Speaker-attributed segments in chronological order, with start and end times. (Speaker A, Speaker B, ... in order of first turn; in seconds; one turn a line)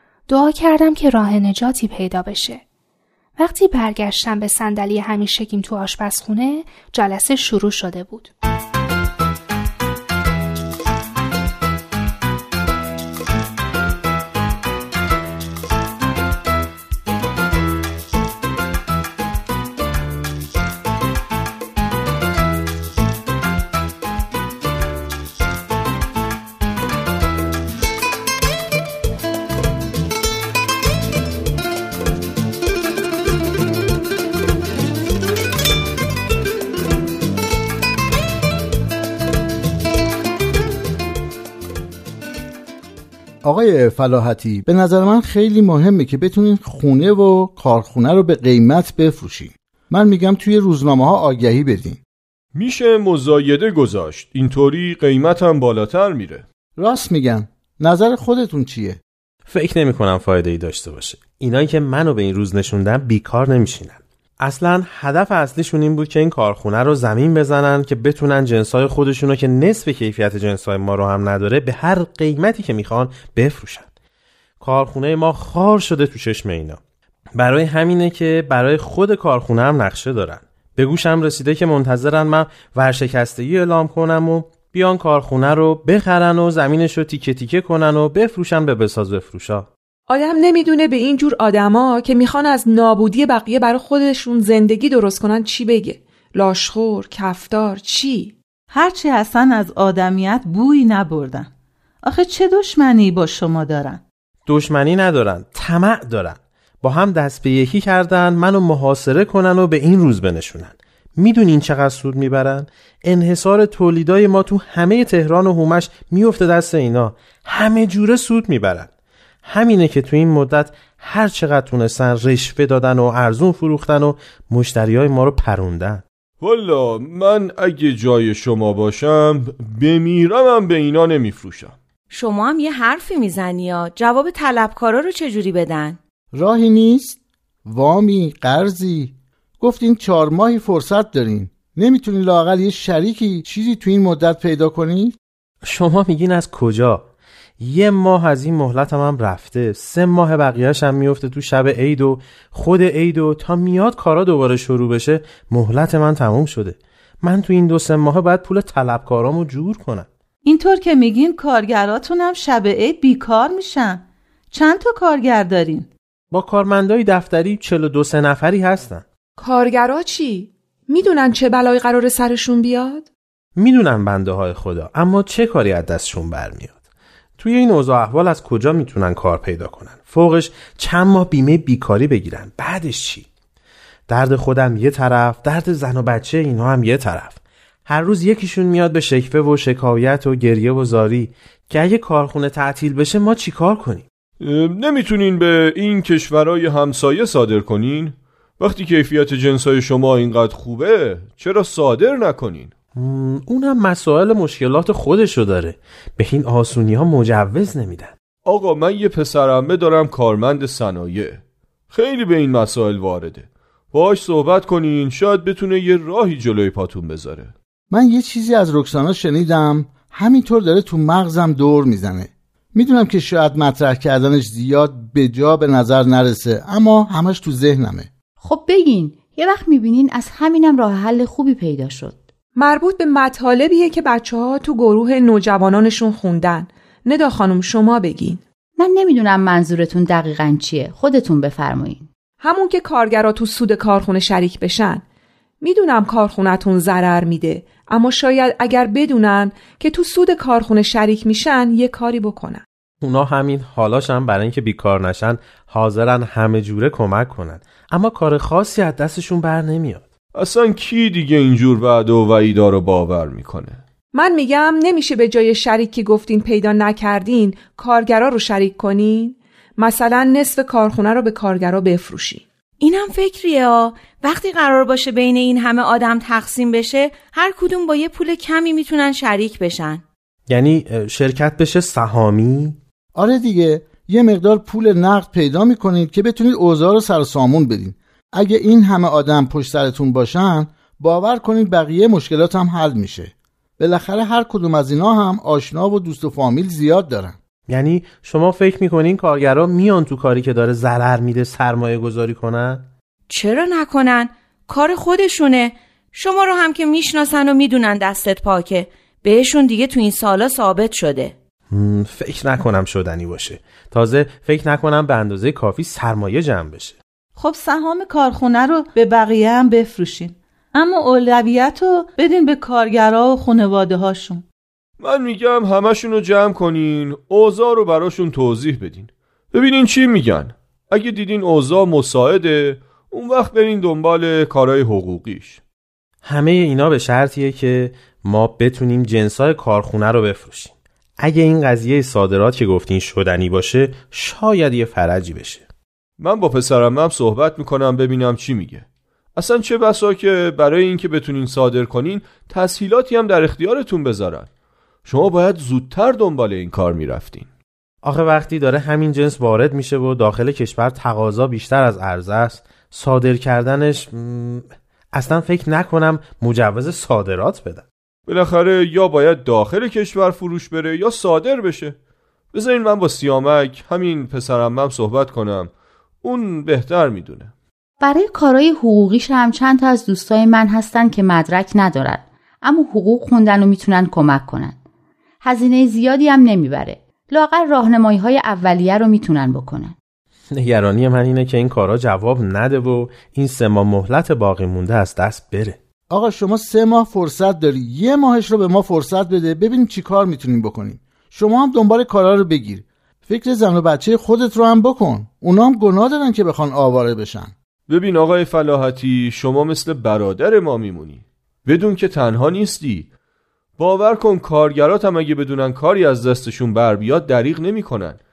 Speaker A: 0.3-2.6
Speaker A: 3.4-8.3
Speaker B: 43.4-52.0
Speaker C: 52.5-56.4
Speaker B: 56.8-59.0
Speaker D: 59.5-73.9
Speaker D: 74.6-76.8
Speaker D: 77.3-89.7
Speaker E: 90.1-98.3
Speaker F: 98.7-101.5
Speaker F: 102.0-104.0
Speaker D: 104.5-118.9
Speaker D: 119.4-126.0
Speaker C: 126.4-131.7
Speaker G: 132.1-136.0
Speaker B: 136.4-137.2
Speaker B: 137.7-145.1
Speaker D: 145.6-147.1
Speaker D: 147.6-160.1
Speaker F: 160.4-165.9
Speaker D: 166.3-169.0
Speaker E: 169.4-173.1
Speaker D: 173.6-176.7
Speaker D: 177.4-183.3
Speaker D: 184.1-194.0
Speaker C: 194.4-202.7
Speaker D: 202.9-208.1
Speaker C: 208.4-217.5
Speaker B: 217.9-228.1
Speaker H: 228.4-232.2
Speaker E: 232.6-238.4
Speaker H: 238.8-242.1
Speaker E: 242.4-245.0
Speaker E: 245.6-252.6
Speaker D: 253.0-260.1
Speaker C: 260.3-263.8
Speaker E: 264.1-272.4
Speaker G: 272.8-280.0
Speaker D: 280.5-282.8
Speaker B: 283.2-297.3
Speaker D: 297.7-302.9
Speaker G: 303.3-311.3
Speaker D: 311.7-317.0
Speaker F: 317.4-324.4
Speaker C: 325.0-335.6
Speaker D: 336.2-345.6
Speaker C: 346.2-354.5
Speaker C: 355.1-357.5
Speaker D: 358.0-367.8
Speaker C: 368.3-371.9
Speaker C: 372.5-375.7
Speaker C: 376.2-377.5
Speaker H: 378.0-384.8
Speaker H: 385.4-389.9
Speaker D: 390.5-395.8
Speaker B: 396.1-407.5
Speaker C: 407.9-413.1
Speaker C: 413.8-418.2